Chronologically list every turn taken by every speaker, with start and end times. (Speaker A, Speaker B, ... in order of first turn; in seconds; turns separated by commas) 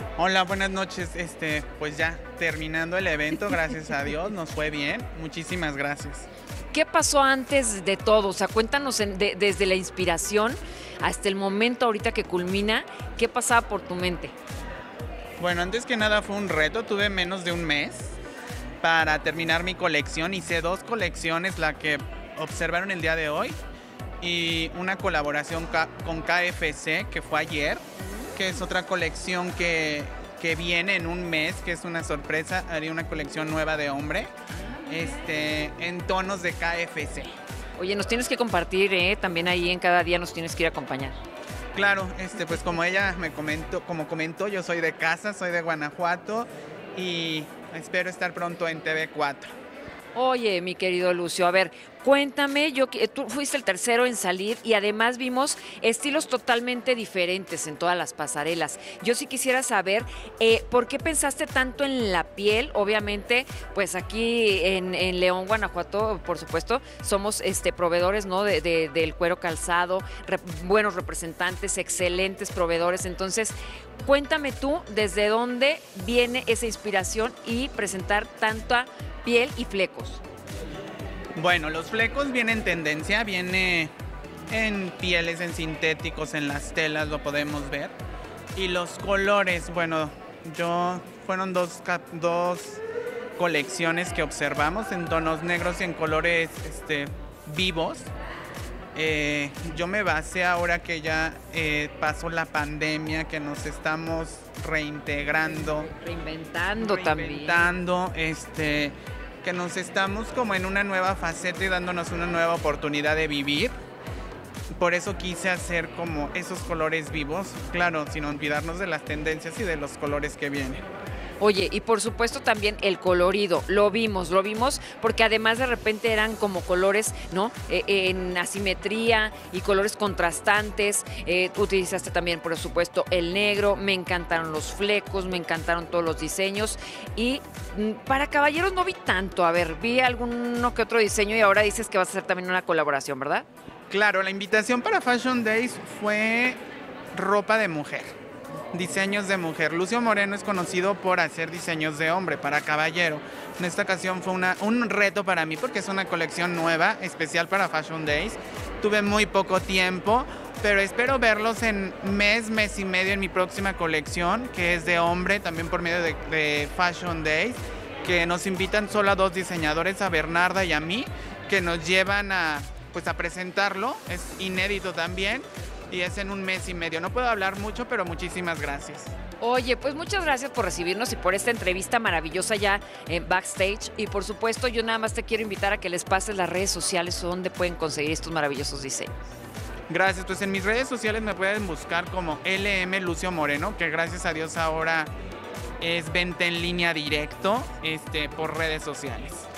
Speaker A: 0.2-6.3, Speaker B: 6.7-14.3, Speaker A: 15.4-18.2, Speaker A: 18.8-23.6, Speaker A: 24.2-27.8, Speaker A: 28.4-34.3, Speaker A: 34.9-37.3, Speaker B: 37.8-41.2, Speaker A: 41.8-49.5, Speaker B: 50.1-73.5, Speaker B: 74.0-80.2, Speaker A: 81.4-83.9, Speaker A: 84.5-87.9, Speaker A: 88.5-92.8, Speaker A: 93.4-98.1, Speaker A: 99.0-105.9, Speaker B: 105.5-107.7, Speaker A: 106.8-113.7, Speaker A: 114.8-120.8, Speaker B: 121.4-143.5, Speaker A: 143.9-146.6, Speaker A: 147.1-148.1, Speaker A: 148.7-179.1, Speaker B: 179.4-189.1, Speaker A: 189.9-195.1, Speaker A: 195.8-199.5